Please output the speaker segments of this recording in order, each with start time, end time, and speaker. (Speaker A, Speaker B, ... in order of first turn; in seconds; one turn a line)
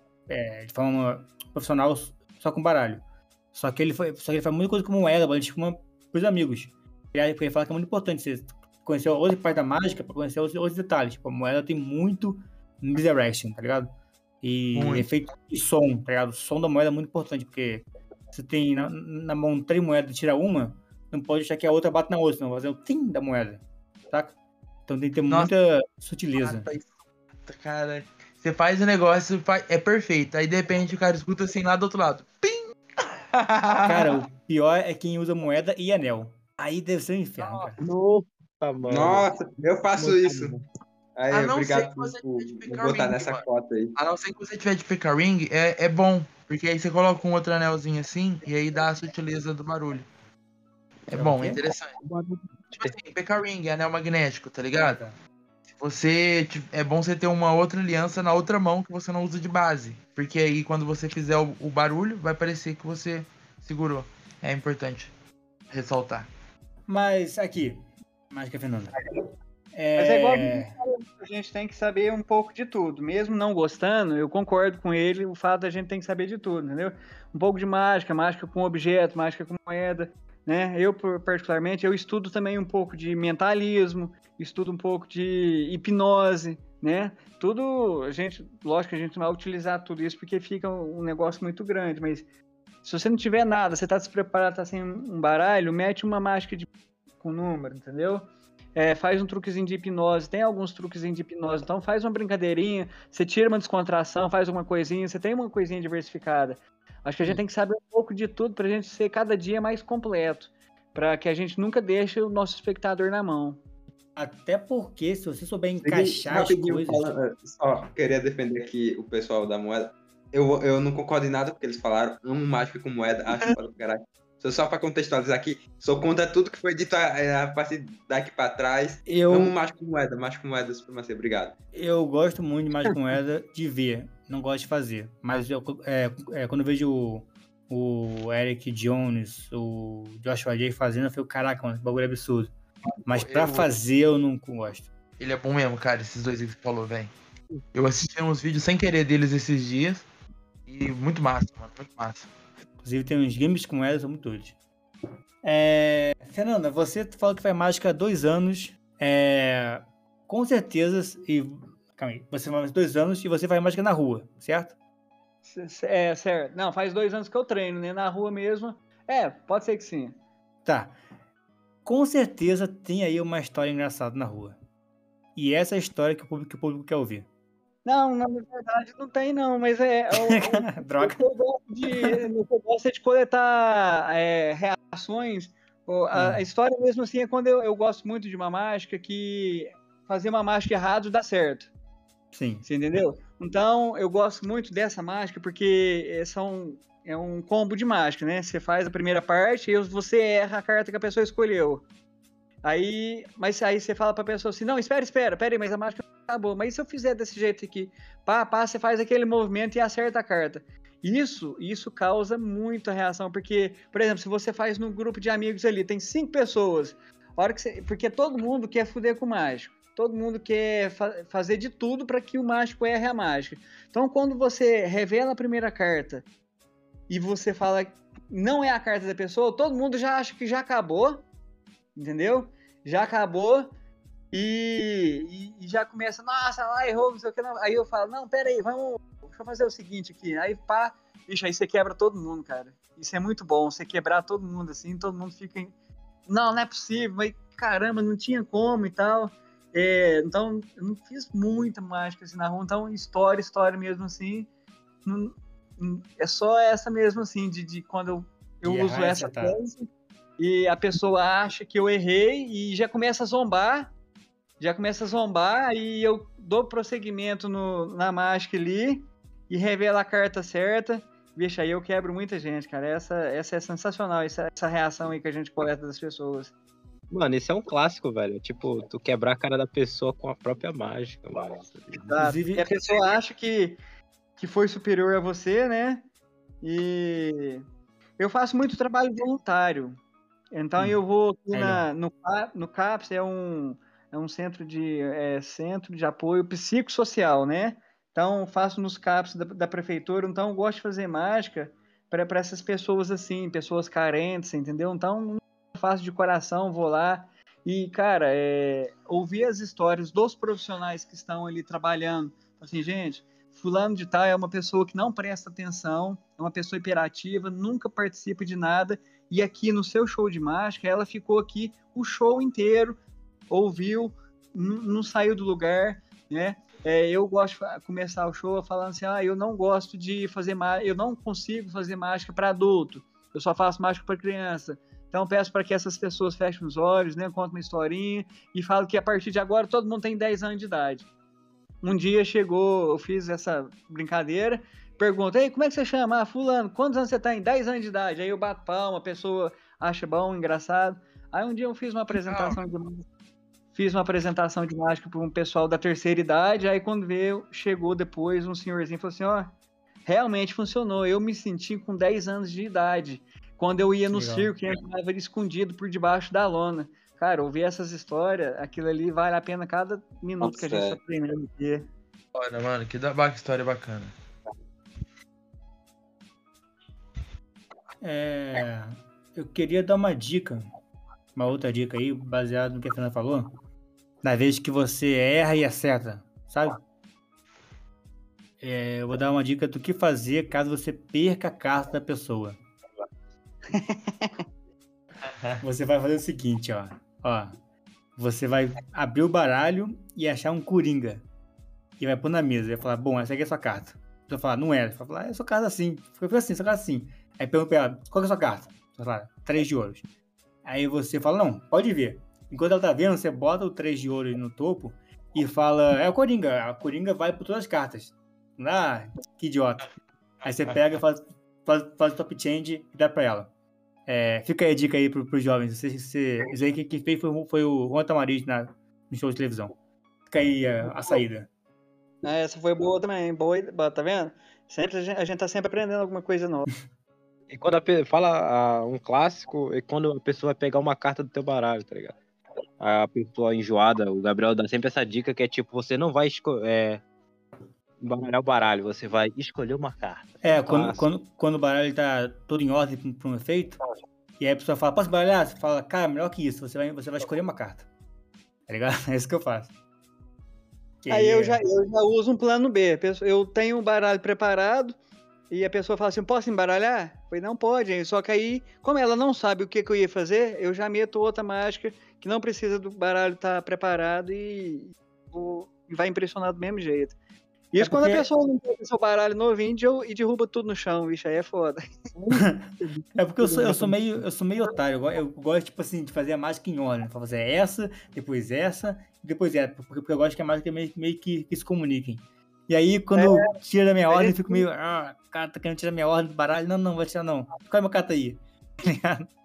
Speaker A: 0.3-13.9
Speaker A: 14.4-24.4
Speaker B: 14.7-15.1
Speaker A: 24.9-26.7
Speaker B: 26.4-26.9
Speaker B: 27.5-34.2
Speaker A: 33.9-37.8
Speaker B: 37.4-37.7
Speaker C: 37.8-39.3
Speaker D: 38.8-40.6
Speaker C: 40.0-40.6
Speaker D: 41.2-43.9
Speaker B: 41.3-43.4
Speaker B: 44.0-50.1
Speaker B: 51.1-52.0
Speaker A: 51.1-51.6
Speaker C: 52.0-52.9
Speaker B: 52.7-55.0
Speaker A: 54.7-55.1
Speaker B: 55.8-65.1
Speaker B: 65.7-66.3
Speaker A: 66.9-69.0
Speaker A: 69.7-70.8
Speaker E: 70.0-92.3
Speaker E: 92.8-96.7
Speaker E: 97.2-113.6
Speaker A: 114.2-117.1
Speaker D: 115.8-131.6
Speaker A: 129.1-129.5
Speaker A: 131.7-142.5
Speaker A: 143.1-144.9
Speaker B: 143.1-143.7
Speaker B: 145.2-147.1
Speaker B: 147.7-150.1
Speaker B: 150.7-152.3
Speaker A: 152.8-154.6
Speaker A: 155.4-164.8
Speaker E: 165.4-170.2
Speaker A: 170.7-171.0
Speaker A: 171.8-174.6
Speaker A: 175.4-177.3
Speaker E: 177.8-191.7
Speaker A: 180.1-181.2
Speaker A: 181.9-182.2
Speaker A: 186.1-186.4
Speaker A: 192.3-192.7
Speaker E: 192.7-201.8
Speaker E: 202.6-226.3
Speaker E: 227.1-231.2
Speaker E: 232.0-233.7
Speaker E: 234.3-245.7
Speaker E: 246.3-254.5
Speaker E: 255.1-259.9
Speaker A: 258.6-259.6
Speaker E: 260.4-263.9
Speaker E: 264.6-276.5
Speaker C: 277.1-282.1
Speaker E: 282.1-283.8
Speaker A: 282.2-282.7
Speaker E: 284.4-286.1
Speaker E: 286.6-287.6
Speaker E: 288.2-290.0
Speaker E: 290.5-341.1
Speaker A: 291.5-291.9
Speaker E: 341.8-353.0
Speaker B: 352.1-352.6
Speaker E: 353.7-359.5
Speaker E: 360.1-371.8
Speaker A: 364.1-364.5
Speaker D: 370.4-371.0
Speaker B: 372.4-374.1
Speaker A: 378.0-380.7
Speaker A: 381.4-383.5
Speaker A: 384.2-386.8
Speaker A: 388.6-392.6
Speaker E: 393.7-394.4
Speaker B: 395.3-395.6
Speaker A: 395.6-397.6
Speaker A: 398.2-401.2
Speaker A: 402.0-410.0
Speaker A: 410.6-419.9
Speaker A: 420.4-423.5
Speaker A: 424.1-429.7
Speaker A: 430.3-431.5
Speaker E: 432.2-436.7
Speaker C: 437.5-442.2
Speaker C: 442.8-447.0
Speaker C: 448.0-451.1
Speaker A: 450.4-453.8
Speaker A: 454.4-457.9
Speaker A: 458.7-459.7
Speaker A: 461.0-461.6
Speaker E: 461.1-465.0
Speaker E: 465.5-477.1
Speaker E: 477.7-482.1
Speaker A: 477.8-478.3
Speaker C: 482.2-483.9
Speaker A: 482.3-499.3
Speaker E: 493.1-493.5
Speaker E: 494.1-494.6